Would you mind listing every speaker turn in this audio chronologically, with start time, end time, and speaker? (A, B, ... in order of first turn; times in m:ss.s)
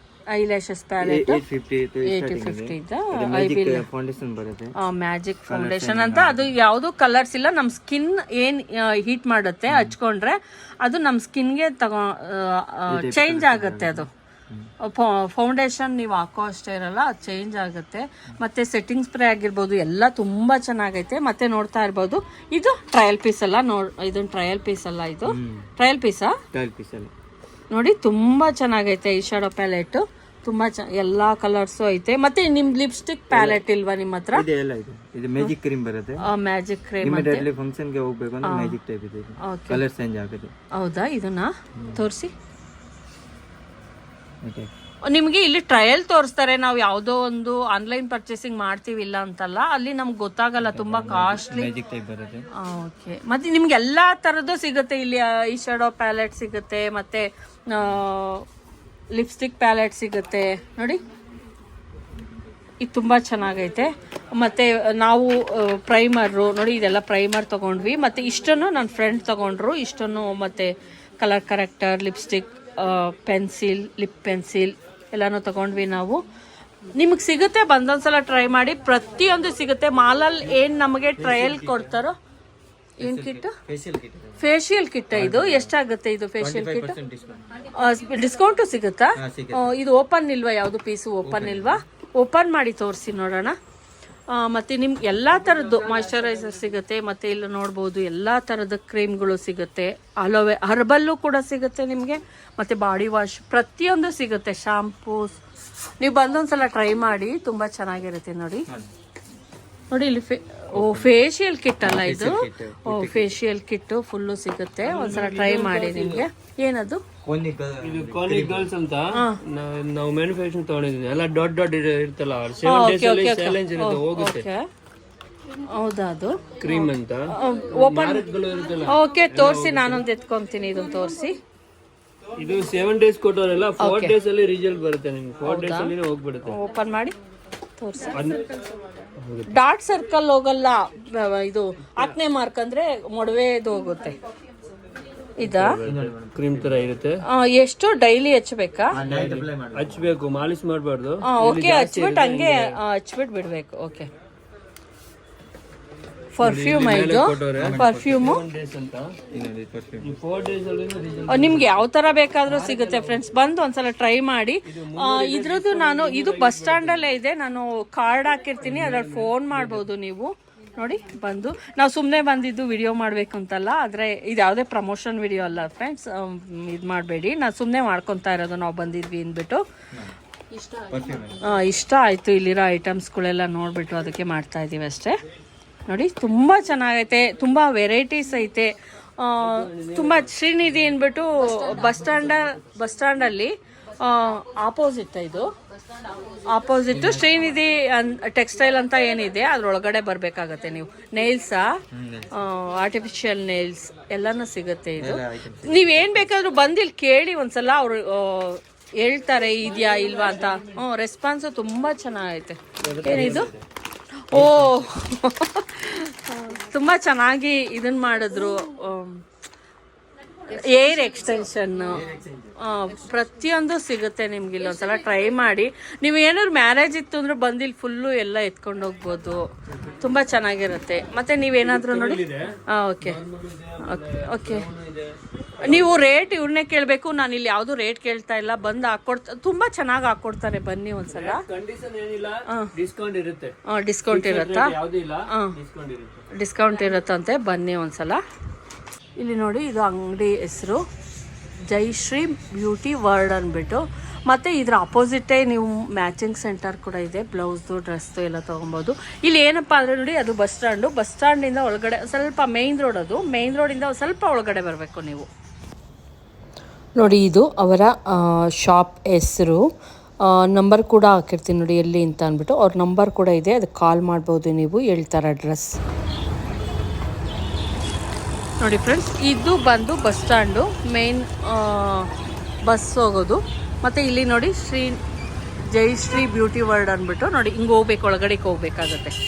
0:00.3-0:01.4 A
0:01.0-0:04.7 B
0:02.0-0:03.8 A
0:04.8-0:14.1 A
0:05.5-0:06.5 B
0:09.7-0:10.0 B
0:12.9-0:14.7 B
0:14.8-0:26.4 A
0:25.3-0:25.7 B
0:26.5-0:27.1 B
0:27.7-0:34.5 A
0:33.3-0:33.6 B
0:34.3-0:36.2 B
0:36.2-0:37.5 A
0:37.0-0:40.5 B
0:38.4-0:38.8 A
0:39.4-0:39.8 A
0:40.7-0:42.3 A
0:41.8-0:42.0 B
0:44.4-0:44.7 B
0:45.0-0:51.7 A
0:50.6-0:52.5 B
0:52.5-0:58.4 A
0:59.1-1:01.0 A
1:02.8-1:16.2 A
1:16.9-1:22.2 A
1:21.2-1:21.9 C
1:23.0-1:23.6 A
1:23.0-1:24.4 B
1:24.4-1:27.0 A
1:25.1-1:25.7 B
1:26.4-1:27.4 B
1:27.6-1:33.6 A
1:29.2-1:29.8 B
1:31.2-1:31.8 B
1:34.3-1:45.4 A
1:46.0-1:48.7 A
1:49.9-1:57.0 A
1:50.7-1:51.1 B
1:51.8-1:53.4 B
1:54.8-1:56.2 C
1:57.2-1:58.7 B
1:57.8-2:04.5 C
1:59.1-1:59.4 A
2:02.6-2:04.6 A
2:05.6-2:08.3 A
2:06.6-2:10.0 C
2:08.8-2:11.4 A
2:12.4-2:16.6 C
2:13.8-2:14.2 A
2:15.4-2:17.2 A
2:17.8-2:18.4 A
2:18.1-2:18.4 C
2:19.2-2:19.5 C
2:19.5-2:24.2 A
2:25.4-2:25.8 A
2:25.4-2:27.2 C
2:25.8-2:26.9 B
2:27.3-2:29.0 A
2:28.9-2:30.2 B
2:29.0-2:32.8 C
2:31.2-2:34.1 A
2:36.4-2:38.4 A
2:36.4-2:39.2 C
2:37.5-2:38.3 B
2:39.3-2:40.2 B
2:40.0-2:41.8 C
2:41.3-2:59.6 A
2:42.4-2:43.2 C
2:44.7-2:47.1 C
2:48.6-2:49.8 C
3:00.6-3:05.2 A
3:00.9-3:01.4 B
3:05.9-3:15.5 A
3:09.4-3:10.3 C
3:16.4-3:21.7 A
3:16.9-3:17.3 B
3:21.9-3:22.3 B
3:22.3-3:33.5 A
3:25.0-3:26.3 B
3:32.8-3:33.6 C
3:33.1-3:33.4 B
3:34.3-3:39.2 A
3:34.3-3:34.9 C
3:40.5-3:53.2 A
3:41.9-3:42.6 B
3:51.6-3:56.0 C
3:53.8-3:54.7 A
3:55.6-4:01.4 A
4:01.1-4:03.6 C
4:03.7-4:04.8 A
4:04.1-4:06.2 C
4:05.3-4:05.5 A
4:06.3-4:08.2 A
4:09.2-4:10.8 A
4:11.6-4:25.3 A
4:27.0-4:29.7 A
4:30.2-4:35.7 A
4:38.6-4:42.1 A
4:42.6-4:45.0 A
4:45.6-4:49.2 A